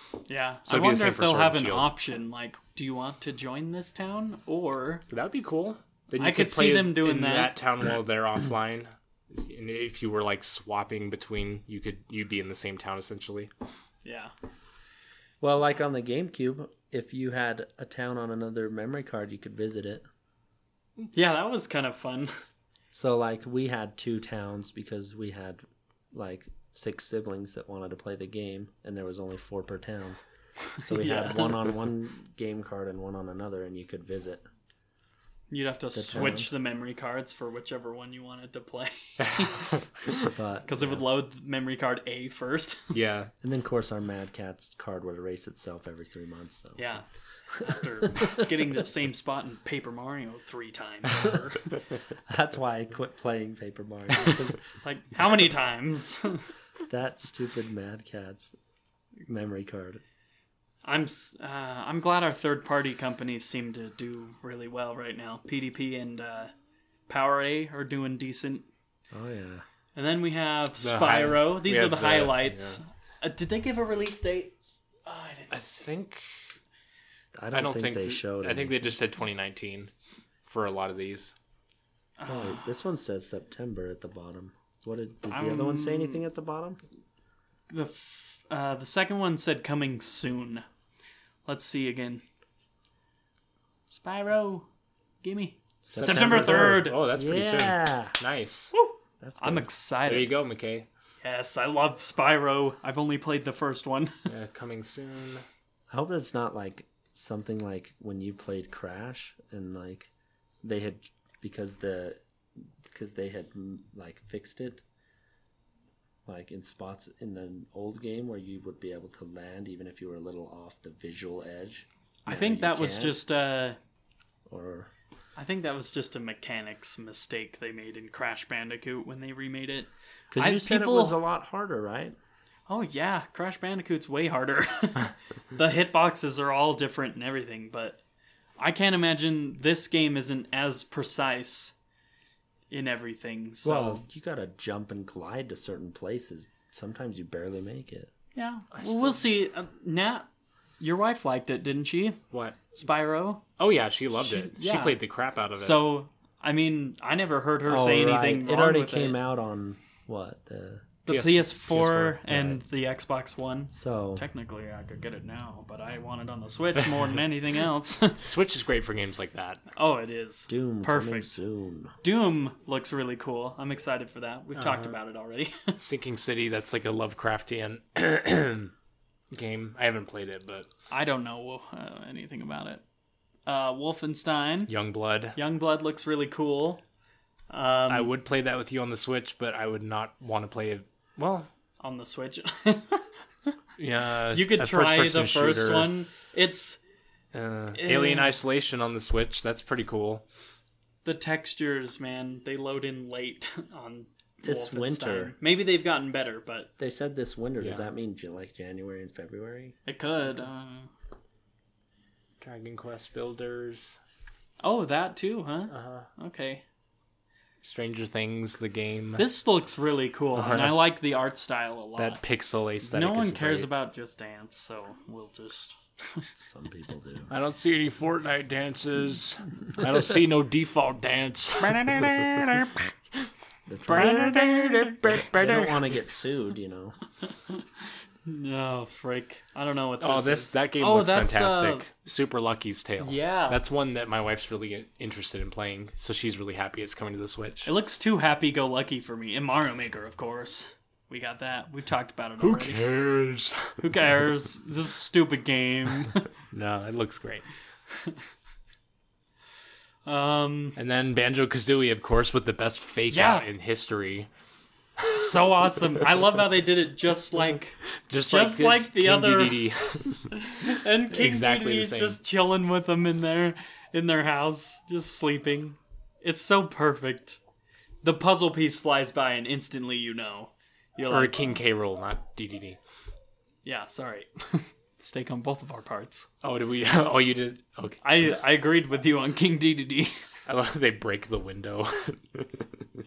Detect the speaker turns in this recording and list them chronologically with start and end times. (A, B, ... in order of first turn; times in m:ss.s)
0:00.3-0:05.0 A
0:00.7-0:01.9 B
0:05.1-0:13.5 B
0:06.2-0:07.5 A
0:14.0-0:14.3 A
0:15.4-0:20.0 C
0:21.1-0:22.4 A
0:22.9-0:25.6 C
0:26.1-0:30.2 C
0:30.8-0:31.7 A
0:30.8-0:34.4 C
0:35.5-0:39.7 A
0:35.9-0:36.5 C
0:39.3-0:39.7 B
0:40.3-0:41.0 C
0:40.7-0:43.0 A
0:42.9-0:43.3 B
0:43.4-0:46.8 C
0:46.8-0:47.0 A
0:47.6-0:51.7 A
0:52.3-0:54.6 C
0:54.8-0:56.4 A
0:56.9-0:58.5 C
0:59.3-1:00.0 C
1:00.8-1:06.5 A
1:07.1-1:08.7 A
1:09.1-1:09.6 C
1:10.0-1:14.5 A
1:10.8-1:12.8 B
1:15.1-1:15.6 A
1:15.5-1:16.2 B
1:17.4-1:19.0 C
1:17.5-1:19.9 B
1:20.5-1:21.3 B
1:22.2-1:22.7 A
1:22.3-1:26.8 C
1:25.3-1:26.2 A
1:27.7-1:30.6 A
1:31.5-1:32.2 A
1:33.9-1:34.7 A
1:35.2-1:37.0 A
1:35.8-1:38.2 C
1:35.9-1:38.7 B
1:38.7-1:40.4 A
1:39.2-1:39.7 C
1:40.1-1:40.9 B
1:41.2-1:44.3 A
1:44.3-1:45.4 B
1:45.9-1:50.1 C
1:50.6-1:52.2 C
1:52.8-1:54.8 C
1:56.3-2:03.2 C
2:02.3-2:03.8 A
2:04.5-2:04.9 C
2:05.4-2:11.2 A
2:10.3-2:12.2 C
2:12.7-2:18.0 A
2:18.6-2:21.7 A
2:22.7-2:24.0 A
2:23.6-2:28.1 C
2:28.4-2:30.3 A
2:28.7-2:29.2 B
2:30.8-2:32.2 A
2:32.3-2:32.7 B
2:32.7-2:33.4 A
2:33.6-2:35.9 B
2:34.2-2:35.0 A
2:35.6-2:39.2 A
2:37.7-2:40.9 C
2:41.1-2:48.2 A
2:41.1-2:42.2 B
2:42.3-2:42.6 C
2:43.7-2:44.2 C
2:48.2-2:49.6 B
2:49.8-2:51.4 A
2:50.5-2:51.9 C
2:52.0-2:55.8 A
2:54.6-2:54.9 B
2:55.8-2:58.7 B
2:59.3-3:00.7 B
3:00.9-3:02.8 A
3:03.5-3:04.7 A
3:04.7-3:05.4 B
3:05.4-3:06.8 A
3:07.5-3:08.1 A
3:07.9-3:11.5 B
3:11.8-3:13.5 A
3:13.8-3:15.9 B
3:14.3-3:16.8 A
3:17.3-3:20.2 B
3:17.7-3:18.3 A
3:21.0-3:26.7 A
3:24.4-3:25.4 C
3:26.8-3:29.8 C
3:27.6-3:27.8 B
3:29.9-3:30.9 A
3:32.4-3:34.0 B
3:34.6-3:36.6 A
3:35.7-3:36.1 B
3:37.6-3:39.3 B
3:39.2-3:42.2 A
3:40.4-3:40.9 B
3:42.0-3:43.7 B
3:42.8-3:46.3 A
3:46.4-3:47.3 C
3:47.3-3:53.3 B
3:53.7-3:54.6 C
3:53.9-3:55.8 B
3:53.9-3:54.9 A
3:55.1-3:57.0 C
3:57.3-4:01.9 A
4:00.0-4:07.7 B
4:03.0-4:03.6 A
4:07.6-4:12.8 A
4:12.4-4:13.8 B
4:13.8-4:16.3 A
4:16.5-4:17.5 B
4:17.9-4:18.2 A
4:20.1-4:20.8 A
4:20.8-4:24.3 B
4:23.1-4:23.4 A
4:25.1-4:29.7 A
4:28.1-4:30.4 B
4:30.3-4:37.4 A
4:31.1-4:32.2 B
4:38.0-4:41.4 A
4:41.1-4:42.8 B
4:43.6-4:46.3 A
4:46.4-4:48.0 B
4:48.0-4:50.2 A
4:50.5-4:52.6 B